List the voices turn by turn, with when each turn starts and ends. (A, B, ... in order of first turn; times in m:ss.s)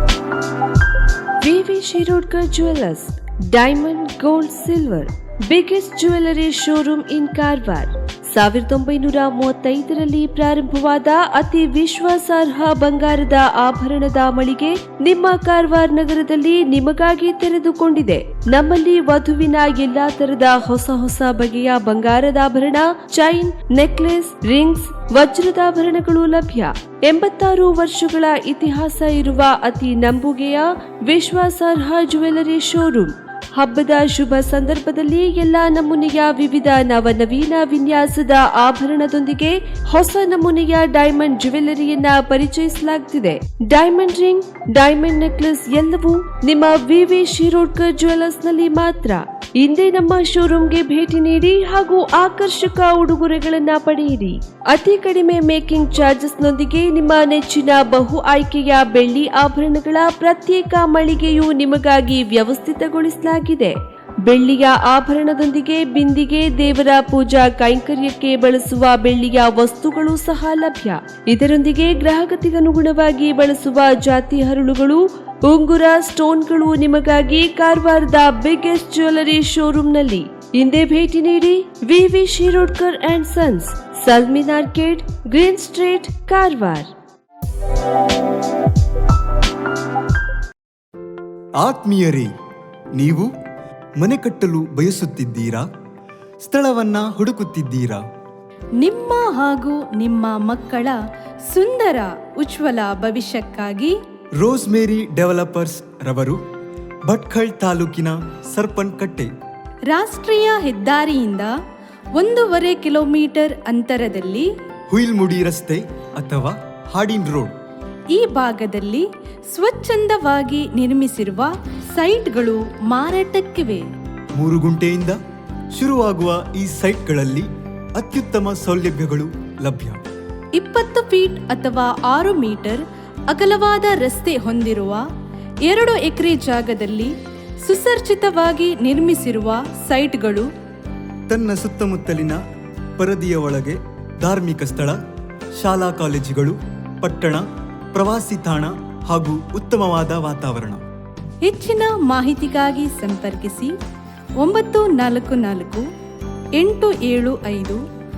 0:01.4-1:26.9 A
1:31.6-1:32.3 B
1:33.0-1:33.3 B
1:34.0-1:35.6 B
1:36.4-1:38.0 B
1:38.8-1:41.0 C
1:41.5-1:43.9 C
1:44.4-1:46.4 B
1:47.1-1:49.3 B
1:49.9-1:51.5 C
1:52.2-1:54.5 C
1:54.9-1:57.5 B
1:58.1-2:03.8 C
2:04.4-2:05.2 B
2:05.8-2:10.0 B
2:10.6-2:15.0 C
2:15.7-2:17.1 C
2:17.6-2:20.5 C
2:21.3-2:22.4 B
2:23.0-2:25.0 B
2:25.6-2:30.8 B
2:31.4-2:33.7 C
2:34.4-2:35.8 C
2:36.6-2:37.8 C